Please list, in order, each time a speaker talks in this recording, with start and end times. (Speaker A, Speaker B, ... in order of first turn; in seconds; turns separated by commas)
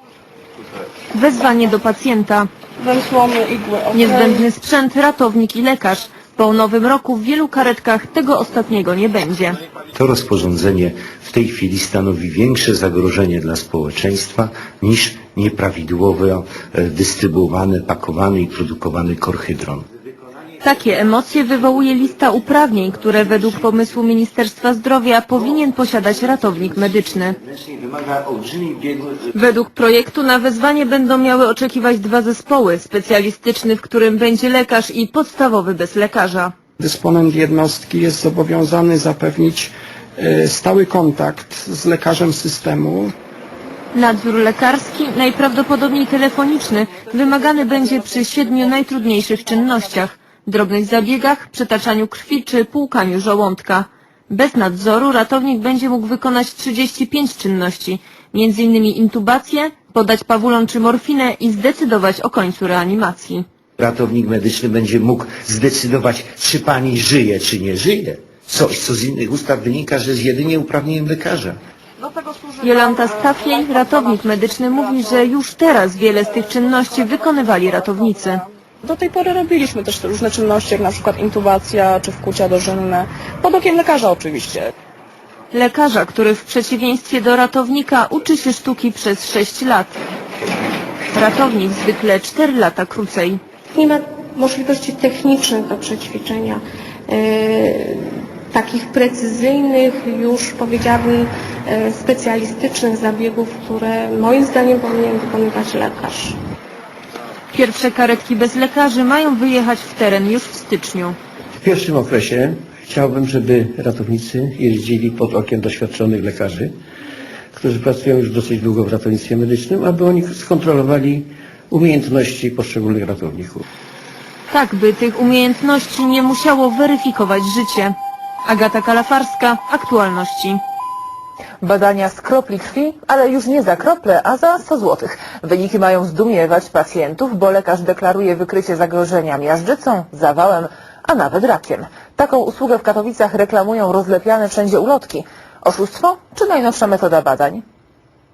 Speaker A: 1.1-2.5, Speaker B: 2.8-4.4, Speaker A: 3.9-9.6, Speaker C: 9.9-19.9, Speaker A: 20.6-27.4, Speaker C: 27.5-29.3, Speaker A: 29.3-36.5, Speaker D: 36.8-43.1, Speaker A: 43.9-63.4, Speaker C: 63.8-71.6, Speaker A: 72.6-78.4, Speaker B: 78.8-84.7, Speaker A: 85.5-90.0, Speaker A: 91.1-93.4, Speaker E: 93.7-106.4, Speaker A: 107.5-111.2, Speaker F: 111.6-116.7, Speaker F: 117.5-123.6, Speaker A: 124.5-130.6, Speaker G: 131.6-147.6